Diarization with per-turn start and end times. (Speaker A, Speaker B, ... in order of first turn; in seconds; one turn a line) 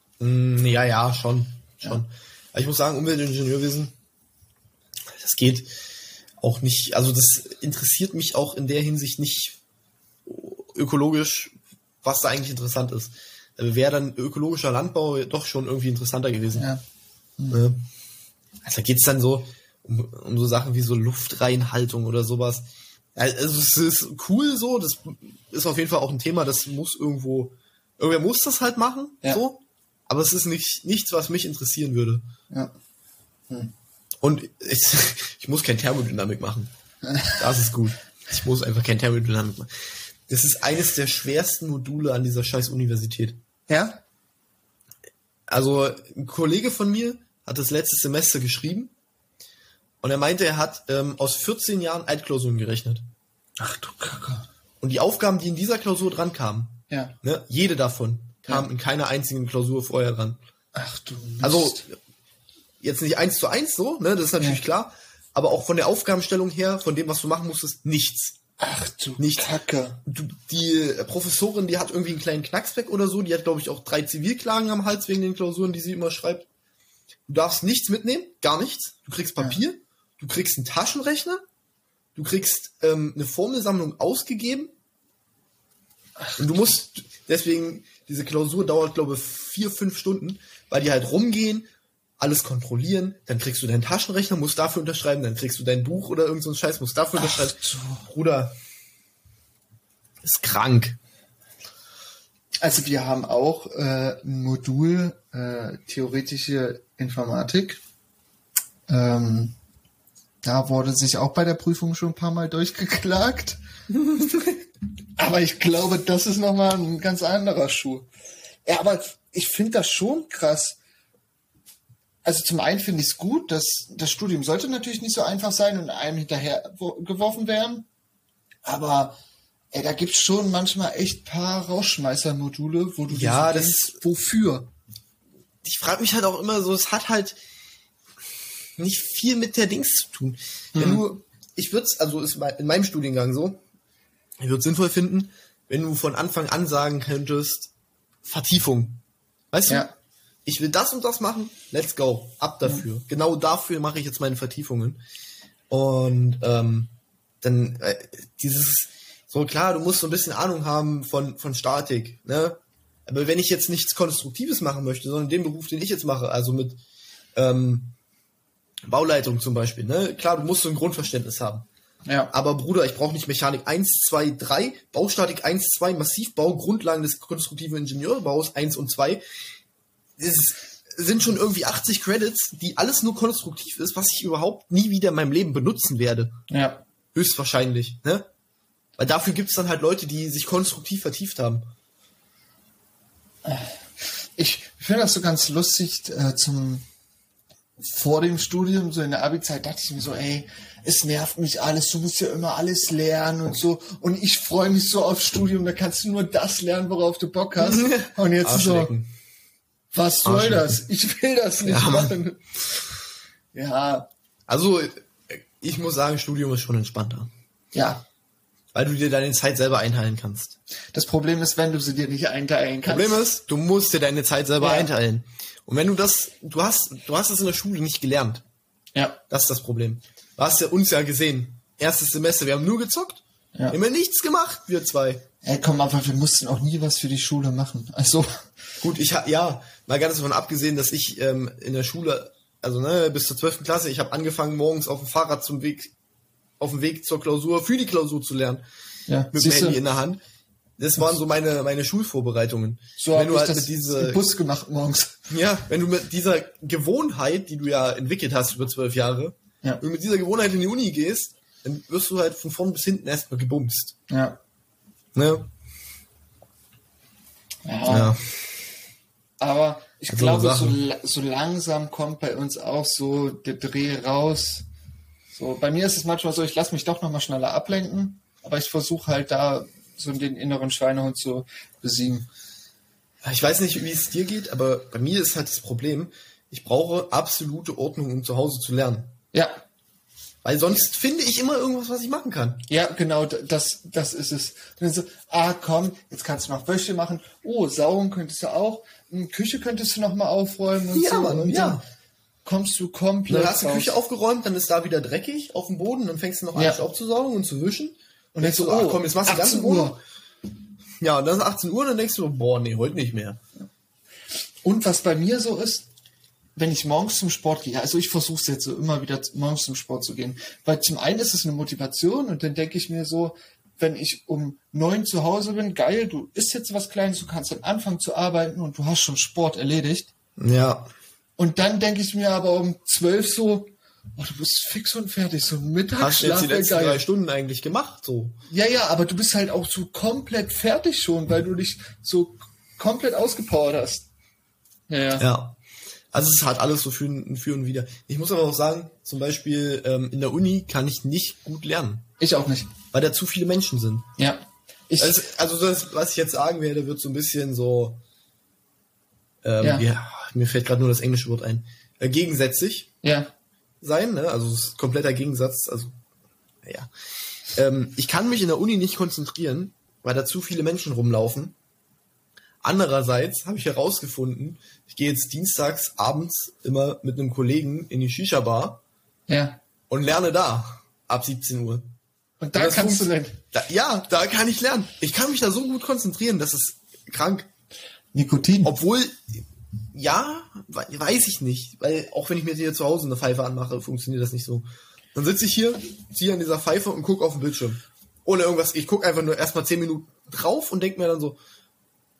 Speaker A: 0.2-3.9
Speaker A: 5.2-5.7
Speaker A: 6.4-9.6
Speaker A: 10.2-16.7
Speaker B: 16.6-16.8
Speaker A: 17.5-17.8
Speaker A: 18.6-32.2
Speaker A: 34.2-36.7
Speaker B: 37.0-37.4
Speaker A: 37.3-39.7
Speaker A: 40.3-43.4
Speaker B: 43.7-44.0
Speaker A: 45.5-48.9
Speaker A: 50.0-53.0
Speaker B: 53.6-54.5
Speaker A: 54.8-60.4
Speaker B: 56.9-57.1
Speaker B: 60.7-61.8
Speaker A: 61.4-62.0
Speaker A: 62.8-68.4
Speaker B: 68.6-70.0
Speaker A: 69.2-69.5
Speaker A: 70.0-76.5
Speaker A: 77.3-81.4
Speaker A: 82.2-84.7
Speaker A: 86.4-91.7
Speaker A: 92.2-98.6
Speaker B: 97.2-98.0
Speaker A: 100.2-101.0
Speaker B: 102.6-107.8
Speaker B: 108.9-109.5
Speaker B: 110.4-113.6
Speaker B: 115.2-118.1
Speaker B: 118.7-120.8
Speaker B: 122.2-127.9
Speaker B: 128.6-129.2
Speaker B: 129.7-134.7
Speaker A: 133.1-134.0
Speaker A: 135.6-137.4
Speaker A: 138.8-143.6
Speaker B: 140.8-141.0
Speaker A: 144.4-147.7
Speaker A: 148.2-149.0
Speaker A: 149.5-149.9
Speaker A: 150.5-155.0
Speaker A: 155.7-156.9
Speaker A: 157.4-166.8
Speaker A: 167.3-167.9
Speaker A: 168.9-171.7
Speaker B: 172.1-172.3
Speaker A: 172.3-179.2
Speaker A: 180.2-186.3
Speaker B: 186.5-186.8
Speaker A: 187.1-188.3
Speaker A: 189.0-191.7
Speaker B: 193.4-196.8
Speaker B: 197.8-208.9
Speaker A: 207.6-209.1
Speaker B: 209.9-212.6
Speaker A: 210.2-210.8
Speaker A: 211.6-212.2
Speaker B: 213.5-214.1
Speaker A: 214.5-217.3
Speaker B: 217.7-218.0
Speaker A: 218.7-220.6
Speaker B: 220.9-223.2
Speaker A: 222.9-228.4
Speaker B: 224.6-224.9
Speaker B: 228.9-229.2
Speaker A: 229.3-235.2
Speaker B: 235.4-238.4
Speaker A: 238.8-245.9
Speaker A: 246.6-248.6
Speaker B: 249.1-249.8
Speaker A: 249.3-250.2
Speaker A: 250.8-254.2
Speaker B: 253.0-255.2
Speaker A: 255.3-263.9
Speaker B: 264.1-264.4
Speaker A: 265.1-265.5
Speaker B: 267.6-268.2
Speaker A: 267.9-268.2
Speaker B: 269.4-274.7
Speaker A: 270.1-270.8
Speaker B: 275.3-282.3
Speaker A: 283.2-289.1
Speaker B: 289.3-289.6
Speaker A: 290.4-292.6
Speaker B: 292.7-301.8
Speaker A: 300.9-301.8
Speaker B: 302.4-304.0
Speaker A: 303.3-310.0
Speaker B: 306.6-306.8
Speaker B: 308.4-310.0
Speaker A: 311.0-313.4
Speaker B: 314.6-315.9
Speaker B: 316.6-330.1
Speaker A: 330.4-330.9
Speaker B: 331.4-337.0
Speaker A: 336.0-338.4
Speaker B: 338.5-344.1
Speaker B: 344.9-345.2
Speaker A: 345.2-345.6
Speaker A: 346.1-352.1
Speaker B: 352.2-352.7
Speaker A: 352.9-354.1
Speaker B: 354.2-355.2
Speaker A: 355.0-358.0
Speaker A: 359.4-362.9
Speaker B: 363.0-363.3
Speaker A: 363.8-365.9
Speaker A: 367.6-371.6
Speaker A: 372.6-378.8
Speaker B: 379.3-379.6
Speaker A: 379.9-381.9
Speaker B: 382.4-383.4
Speaker A: 382.6-387.5
Speaker B: 388.1-388.7
Speaker A: 388.6-389.4
Speaker A: 389.9-401.4